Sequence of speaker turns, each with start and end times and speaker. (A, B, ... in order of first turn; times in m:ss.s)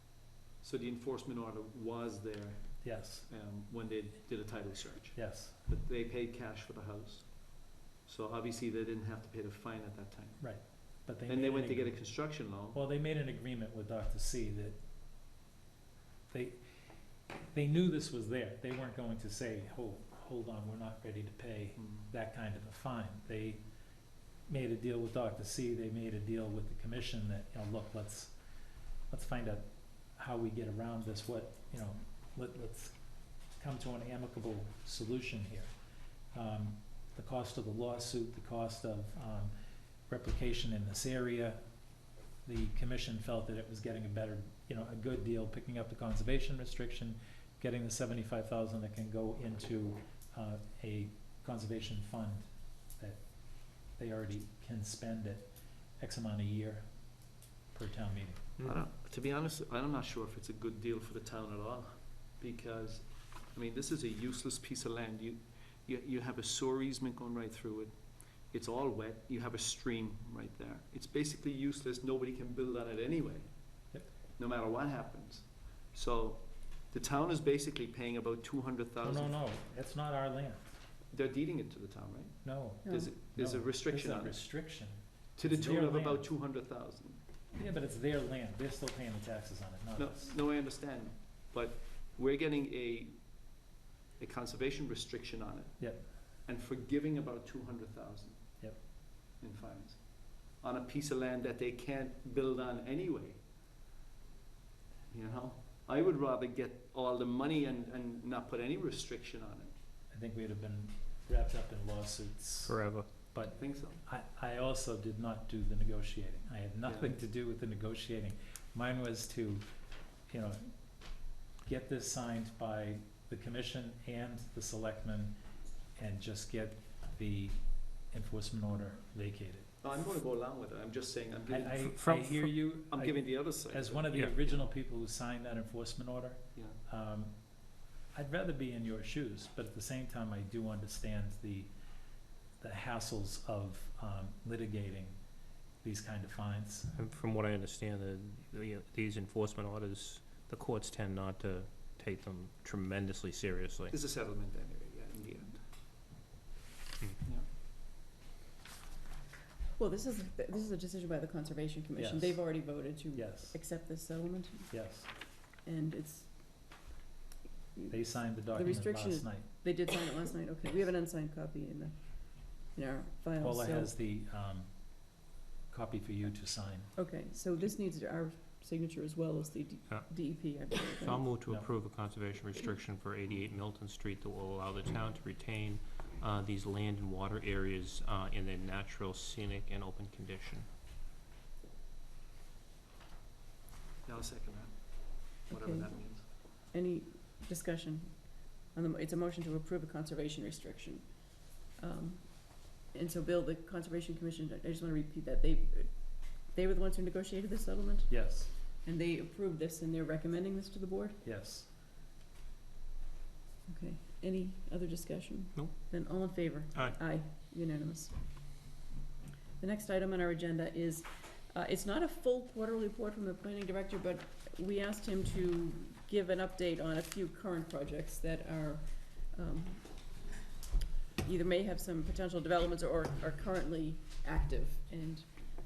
0:00.6-0:07.3 A
0:02.8-0:03.3 B
0:05.1-0:05.6 B
0:08.0-0:10.4 A
0:10.4-0:12.0 B
0:11.3-0:12.8 A
0:12.7-0:14.8 B
0:16.3-0:16.6 B
0:17.4-0:23.6 B
0:24.5-0:28.3 B
0:29.1-0:29.6 B
0:30.2-0:33.0 B
0:33.6-0:35.7 B
0:36.3-0:39.5 B
0:40.1-0:41.6 B
0:42.4-0:53.2 B
0:54.0-0:56.8 B
0:57.7-0:58.4 B
0:58.6-1:07.9 A
1:08.5-1:13.4 A
1:14.4-1:19.3 A
1:19.0-1:20.7 B
1:21.1-1:24.4 A
1:22.4-1:26.2 B
1:25.4-1:27.2 A
1:27.6-1:30.3 B
1:30.0-1:33.1 A
1:34.2-1:35.9 A
1:35.8-1:36.0 B
1:36.4-1:38.4 A
1:39.4-1:40.0 A
1:40.6-1:43.4 A
1:45.1-1:49.7 A
1:50.1-1:59.6 B
1:52.7-1:53.1 C
1:53.6-1:54.0 A
1:56.9-1:57.1 A
2:00.3-2:00.7 B
2:01.6-2:05.4 B
2:06.0-2:09.7 B
2:09.8-2:12.0 A
2:11.5-2:17.3 B
2:11.9-2:12.5 C
2:12.9-2:14.6 A
2:18.1-2:21.7 B
2:22.6-2:25.2 B
2:25.8-2:26.9 B
2:26.9-2:33.9 C
2:33.9-2:35.6 A
2:39.8-2:44.7 D
2:42.0-2:42.4 B
2:43.1-2:43.6 B
2:44.7-2:45.1 B
2:45.6-2:46.3 D
2:47.8-2:53.9 D
2:47.9-2:49.5 B
2:53.4-2:54.7 B
2:55.7-2:56.9 B
2:57.0-3:01.3 D
3:01.0-3:10.7 C
3:14.0-3:14.7 A
3:15.4-3:16.2 A
3:15.5-3:15.9 D
3:16.7-3:21.1 D
3:21.7-3:31.2 D
3:28.1-3:28.5 B
3:31.2-3:31.7 B
3:33.7-3:38.1 D
3:35.6-3:37.0 C
3:39.6-3:49.8 D
3:51.2-3:55.3 D